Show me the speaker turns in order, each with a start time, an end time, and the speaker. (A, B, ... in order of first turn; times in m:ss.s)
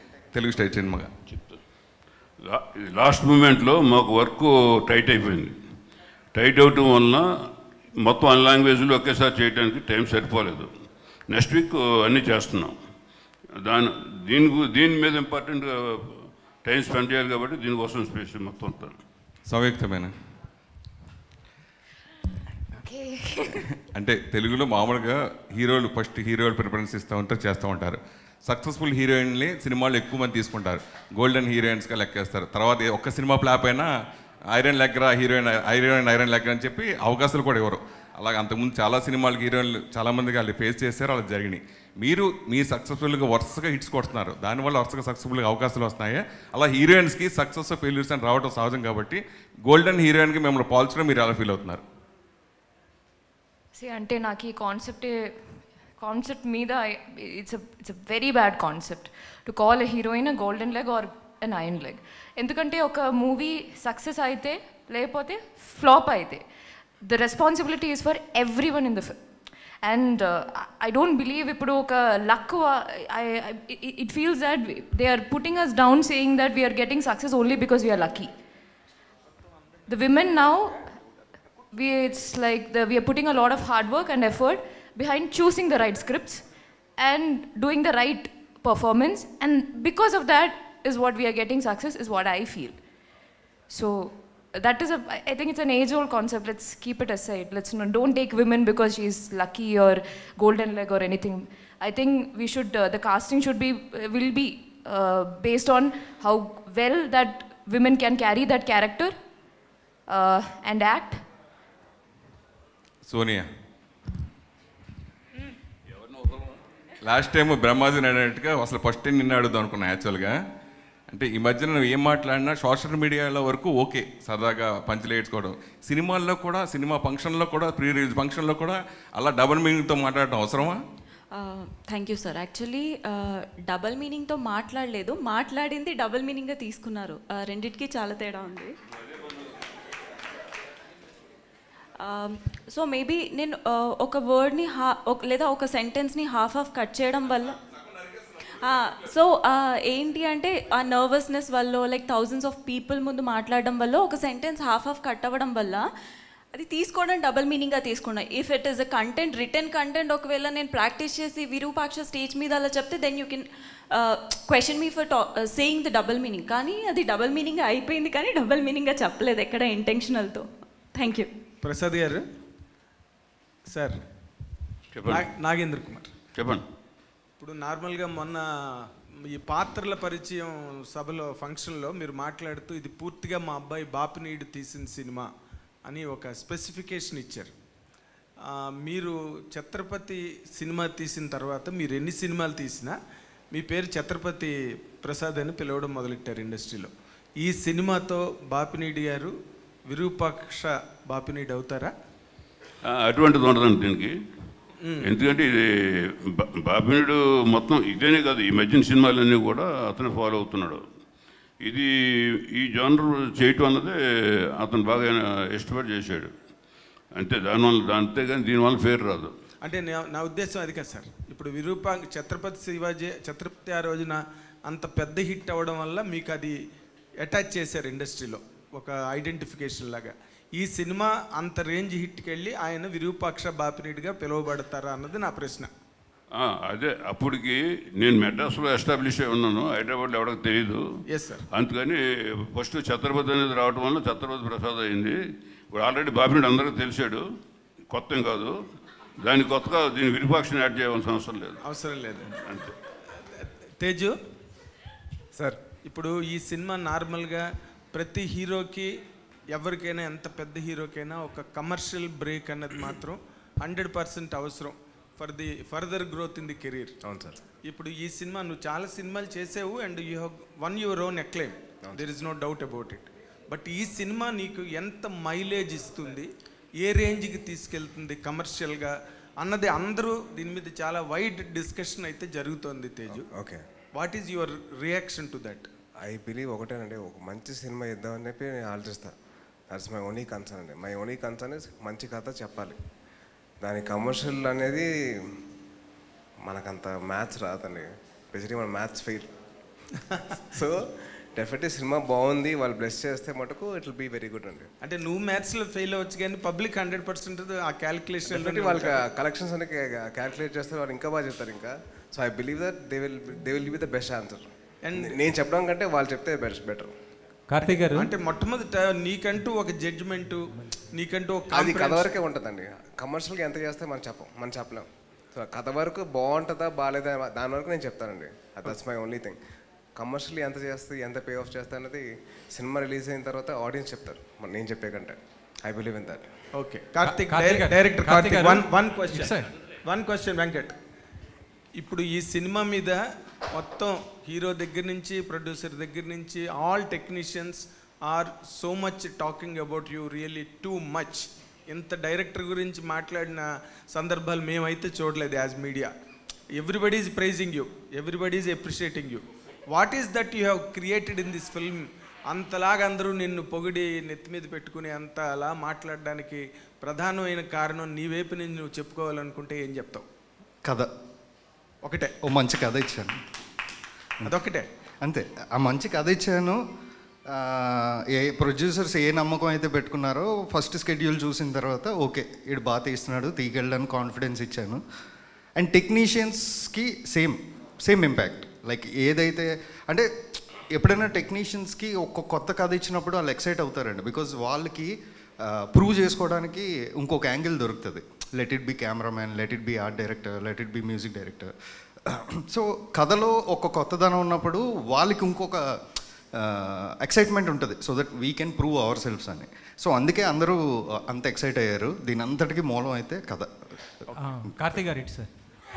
0:00.3-0:01.1 A
0:01.3-0:01.6 B
0:02.4-0:05.6 B
0:06.3-0:07.5 B
0:08.0-0:10.7 B
0:11.3-0:12.8 B
0:13.6-0:19.0 B
0:19.5-0:20.1 A
0:22.8-0:23.7 C
0:23.8-0:33.9 A
0:34.5-0:51.8 A
0:53.8-1:06.4 C
1:07.0-1:09.2 C
1:09.8-1:18.3 C
1:19.9-1:20.9 C
1:21.7-1:26.4 C
1:27.0-1:32.8 C
1:33.7-1:49.2 C
1:50.1-1:51.2 C
1:53.0-1:53.5 A
1:57.0-2:00.3 A
2:01.1-2:10.8 A
2:11.3-2:18.7 D
2:22.0-2:27.6 D
2:28.6-2:35.9 D
2:36.5-2:51.3 D
2:51.6-2:52.2 E
2:53.7-2:54.0 E
2:54.9-2:55.3 B
2:55.1-2:56.1 E
2:56.3-2:56.6 B
2:57.4-3:05.3 E
3:05.8-3:07.5 E
3:08.5-3:13.0 E
3:13.5-3:19.3 E
3:19.9-3:21.9 E
3:22.8-3:24.1 B
3:24.8-3:25.1 E
3:25.0-3:30.8 B
3:31.6-3:36.3 B
3:37.1-3:39.3 B
3:39.6-3:46.6 E
3:47.2-3:55.7 E
3:56.3-4:07.2 B
4:01.1-4:01.4 E
4:07.9-4:08.6 B
4:09.2-4:11.6 B
4:11.6-4:12.3 E
4:12.3-4:12.7 B
4:13.2-4:14.1 E
4:15.8-4:18.9 E
4:19.5-4:26.9 E
4:27.0-4:27.4 F
4:27.6-4:43.3 E
4:43.1-4:43.6 F
4:43.9-4:45.7 E
4:46.0-4:49.1 F
4:49.7-4:52.8 F
4:53.6-4:55.4 F
4:56.4-4:59.3 F
5:00.4-5:04.7 F
5:04.8-5:09.0 E
5:08.3-5:16.9 F
5:14.8-5:15.2 E
5:17.5-5:18.1 G
5:17.6-5:22.1 E
5:21.5-5:29.4 F
5:30.0-5:36.3 F
5:36.5-5:40.7 E
5:37.0-5:39.5 G
5:41.8-5:43.0 E
5:43.5-5:55.9 E
5:56.5-6:10.0 E
6:10.6-6:10.9 H
6:11.8-6:12.1 E
6:12.2-6:13.2 H
6:14.2-6:14.7 E
6:15.0-6:16.6 H
6:17.3-6:24.8 H
6:25.6-6:41.5 H
6:42.0-6:54.2 H
6:54.1-6:55.3 G